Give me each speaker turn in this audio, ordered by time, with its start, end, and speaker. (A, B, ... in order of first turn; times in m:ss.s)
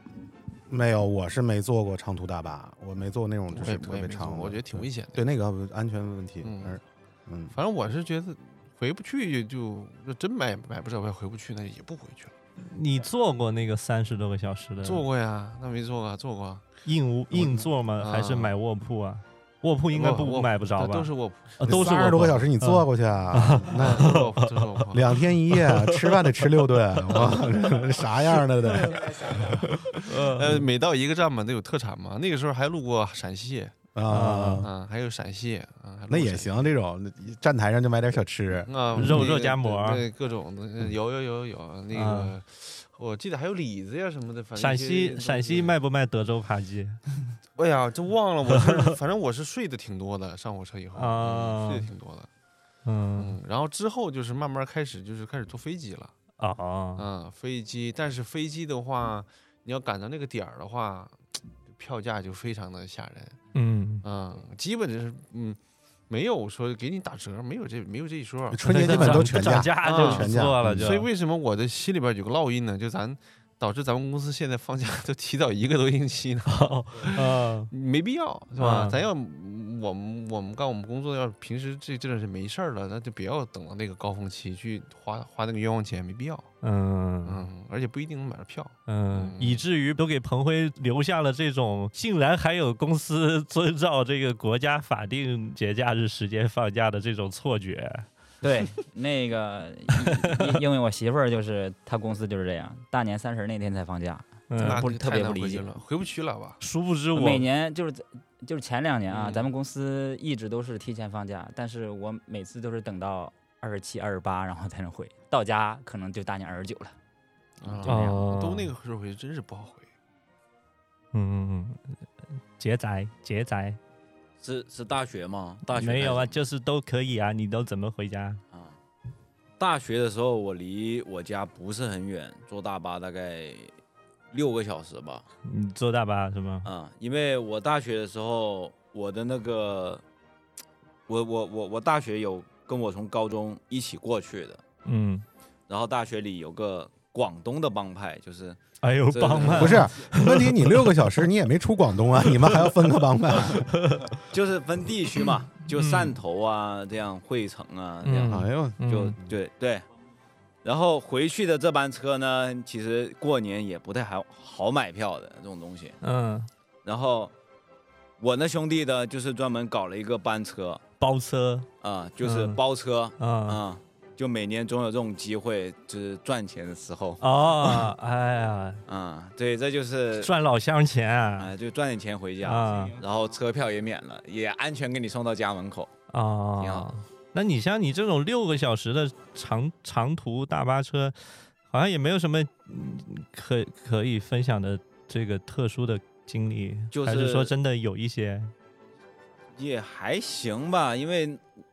0:00.7-0:07.5 A
0:03.5-0:05.2 B
0:06.4-0:06.8 B
0:07.5-0:12.3 B
0:12.6-0:15.0 C
0:14.8-0:16.7 B
0:16.8-0:24.8 C
0:17.3-0:18.5 B
0:19.9-0:22.3 B
0:21.6-0:24.1 A
0:23.7-0:25.1 B
0:24.9-0:30.0 A
0:25.5-0:27.6 C
0:30.0-0:30.6 C
0:30.2-0:33.7 B
0:34.0-0:34.7 A
0:34.1-0:34.7 C
0:34.6-0:36.7 B
0:36.1-0:39.3 A
0:38.7-0:45.8 B
0:39.0-0:40.0 C
0:41.9-0:42.3 C
0:44.6-0:47.0 C
0:47.6-0:52.3 B
0:48.5-0:48.9 C
0:51.0-0:51.9 C
0:52.9-0:53.4 C
0:53.2-0:56.1 B
0:56.4-0:57.1 C
0:57.0-1:03.4 B
1:03.5-1:04.0 C
1:04.0-1:05.6 B
1:06.1-1:26.5 B
1:08.5-1:11.0 A
1:08.6-1:11.1 C
1:16.5-1:17.7 C
1:18.6-1:19.0 C
1:26.6-1:27.4 C
1:27.2-1:29.6 B
1:28.9-1:38.1 C
1:38.4-1:45.7 D
1:44.5-1:44.9 C
1:44.6-1:46.6 B
1:46.6-1:47.5 C
1:47.1-1:57.0 D
1:49.1-1:49.5 B
1:57.6-1:59.9 B
1:57.8-1:58.2 D
1:57.8-1:58.7 C
2:01.1-2:02.0 C
2:02.6-2:03.8 C
2:04.4-2:06.4 E
2:05.7-2:08.4 C
2:09.6-2:13.7 E
2:14.3-2:15.2 E
2:15.4-2:16.7 C
2:16.6-2:20.0 E
2:21.1-2:24.6 E
2:24.8-2:25.3 C
2:25.7-2:29.9 E
2:28.8-2:31.3 C
2:29.4-2:33.7 A
2:32.2-2:32.8 C
2:33.5-2:34.2 C
2:34.3-2:39.9 E
2:35.7-2:36.2 C
2:38.0-2:39.2 C
2:38.3-2:38.8 A
2:40.6-2:46.0 E
2:46.0-2:46.5 C
2:46.8-2:47.3 E
2:48.2-2:50.8 E
2:51.0-2:51.7 C
2:51.8-2:57.9 E
2:52.2-2:52.6 C
2:53.2-2:53.6 C
2:57.2-2:58.8 C
2:58.9-3:00.3 E
3:00.2-3:01.5 C
3:01.4-3:05.9 E
3:02.4-3:03.0 C
3:06.1-3:11.2 C
3:06.6-3:06.9 E
3:11.7-3:18.5 C
3:16.9-3:17.5 E
3:19.6-3:21.5 E